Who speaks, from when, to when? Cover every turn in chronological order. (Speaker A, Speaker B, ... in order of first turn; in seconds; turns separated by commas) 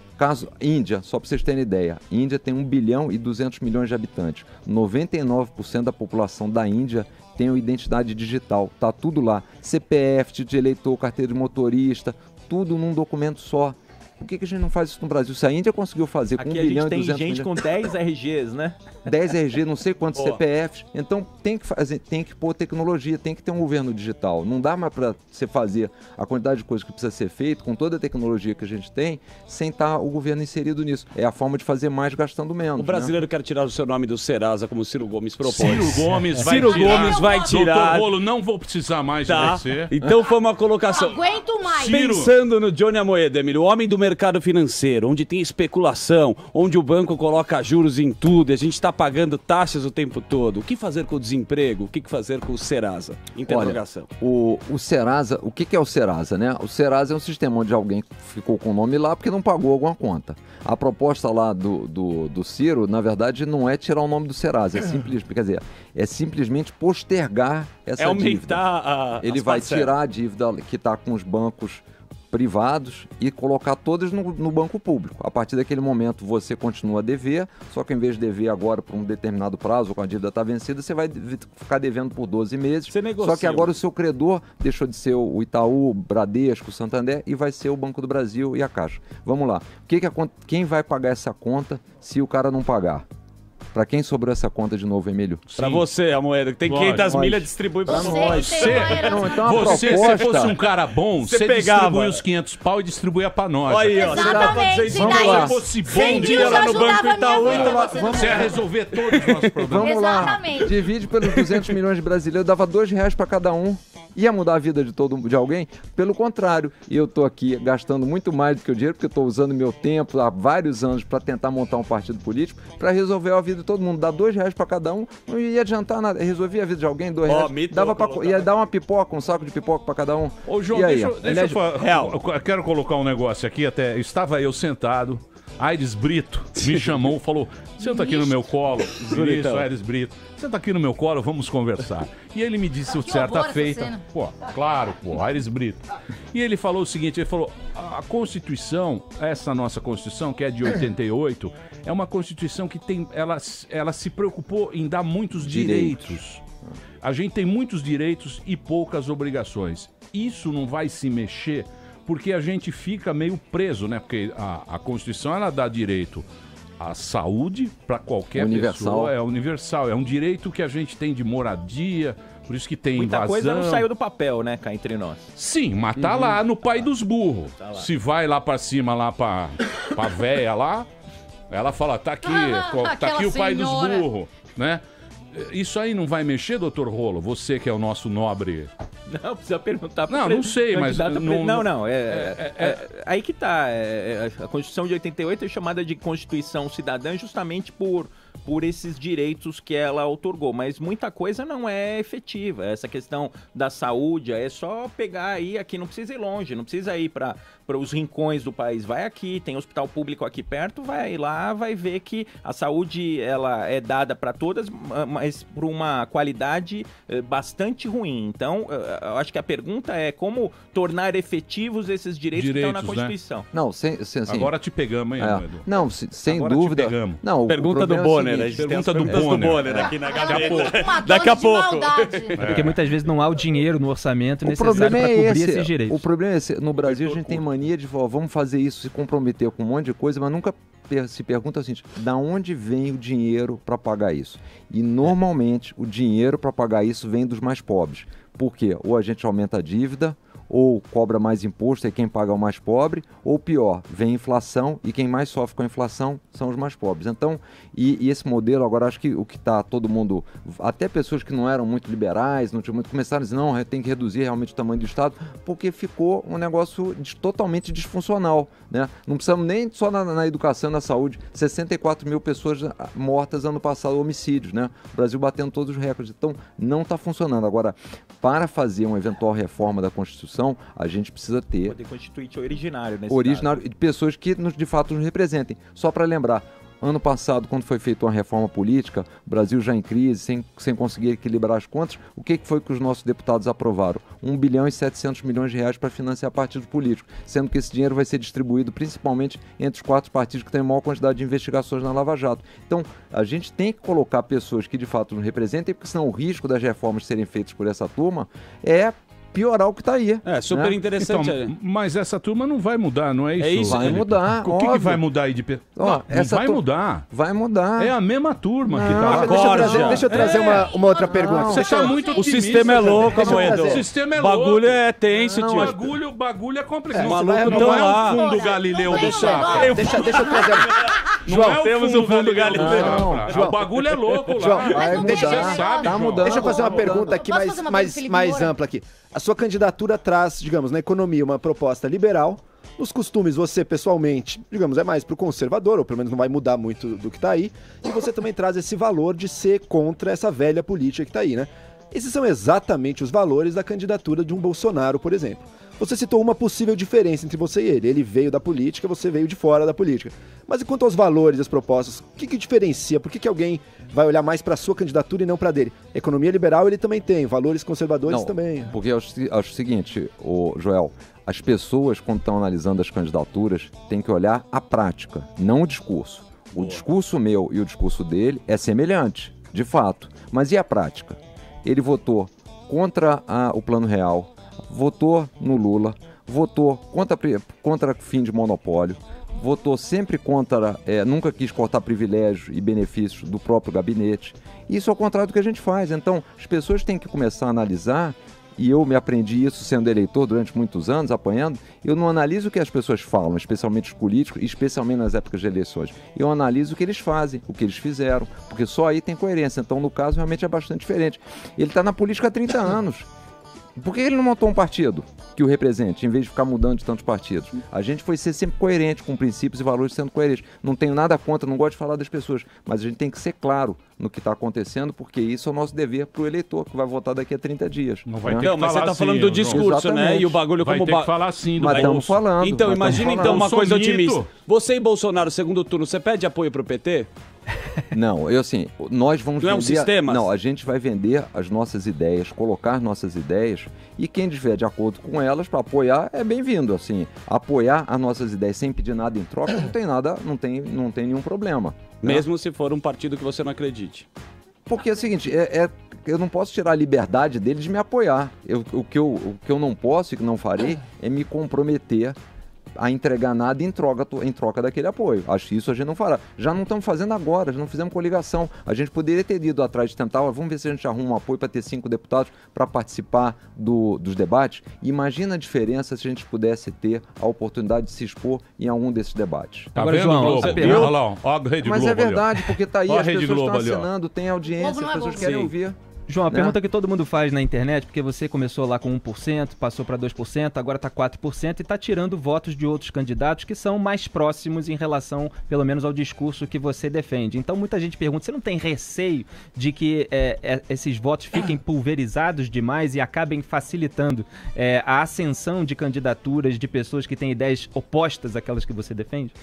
Speaker A: 0.2-17.6, Speaker B: 16.4-18.8, Speaker A: 19.0-33.1, Speaker C: 20.1-20.4, Speaker C: 32.8-38.1, Speaker D: 35.4-39.9, Speaker E: 36.5-37.6, Speaker C: 39.2-41.2, Speaker E: 40.9-42.1, Speaker D: 41.7-42.3, Speaker C: 41.9-54.1, Speaker A: 53.4-68.7, Speaker C: 68.0-69.9, Speaker A: 69.2-93.0, Speaker C: 82.9-83.8, Speaker A: 93.7-95.5, Speaker D: 95.5-95.9, Speaker C: 95.5-99.1, Speaker D: 96.7-97.3, Speaker A: 97.1-100.5, Speaker E: 97.8-99.9, Speaker D: 98.2-110.3, Speaker C: 101.2-102.2, Speaker C: 103.6-108.1, Speaker E: 103.9-108.5, Speaker A: 104.0-105.6, Speaker A: 107.4-108.6, Speaker A: 109.6-131.3, Speaker E: 109.8-110.8, Speaker C: 127.2-128.5, Speaker D: 130.5-156.4, Speaker C: 131.2-132.2, Speaker C: 136.6-137.0, Speaker C: 139.0-139.7, Speaker E: 142.9-144.0, Speaker A: 155.4-156.2, Speaker D: 157.0-166.2, Speaker D: 166.8-173.8, Speaker A: 168.3-169.1, Speaker B: 172.9-175.3, Speaker D: 175.3-180.9, Speaker C: 176.0-176.3, Speaker B: 177.6-177.9, Speaker D: 181.5-188.7, Speaker E: 182.2-184.1, Speaker B: 189.1-223.5, Speaker D: 190.1-192.8, Speaker D: 222.3-223.1, Speaker A: 223.5-224.5, Speaker D: 224.3-225.6, Speaker A: 225.2-228.6, Speaker D: 226.3-227.2, Speaker C: 227.4-232.4, Speaker D: 228.6-230.9, Speaker E: 230.0-232.4, Speaker D: 232.4-232.7, Speaker F: 232.4-236.0, Speaker A: 234.4-281.8, Speaker C: 236.9-237.4, Speaker B: 281.6-283.6, Speaker A: 283.1-310.8, Speaker C: 310.2-311.5, Speaker D: 311.0-317.1, Speaker C: 313.4-314.0, Speaker A: 313.6-315.0, Speaker A: 315.8-317.9, Speaker D: 317.8-319.5, Speaker A: 318.7-320.4, Speaker G: 318.8-322.1, Speaker C: 319.0-320.6, Speaker D: 320.1-320.5, Speaker E: 320.1-322.3, Speaker A: 321.1-321.6, Speaker D: 321.4-324.8, Speaker C: 322.1-325.8, Speaker G: 322.7-323.8, Speaker A: 325.3-325.7, Speaker D: 325.4-330.1, Speaker G: 326.9-328.0, Speaker C: 327.0-328.2, Speaker E: 328.0-330.6, Speaker G: 328.9-331.6, Speaker C: 329.0-330.7, Speaker D: 331.2-336.7, Speaker C: 331.3-333.5, Speaker A: 332.5-333.3, Speaker G: 333.3-333.6, Speaker G: 334.4-335.6, Speaker E: 334.7-338.5, Speaker A: 334.9-337.2, Speaker G: 336.2-368.7, Speaker A: 368.1-413.1, Speaker A: 413.8-428.5, Speaker D: 428.1-429.7, Speaker C: 428.4-437.1, Speaker A: 429.5-430.4, Speaker D: 430.6-432.2, Speaker A: 431.6-433.4, Speaker D: 432.8-434.3, Speaker A: 437.9-452.2, Speaker C: 439.4-440.3, Speaker C: 452.0-454.1, Speaker A: 454.7-462.2, Speaker A: 462.8-479.7, Speaker F: 479.7-480.9, Speaker D: 479.7-482.3, Speaker C: 480.2-480.9, Speaker A: 481.6-485.8, Speaker D: 482.9-483.9, Speaker E: 484.5-485.4, Speaker C: 485.2-485.5, Speaker F: 486.1-509.3, Speaker A: 486.3-486.6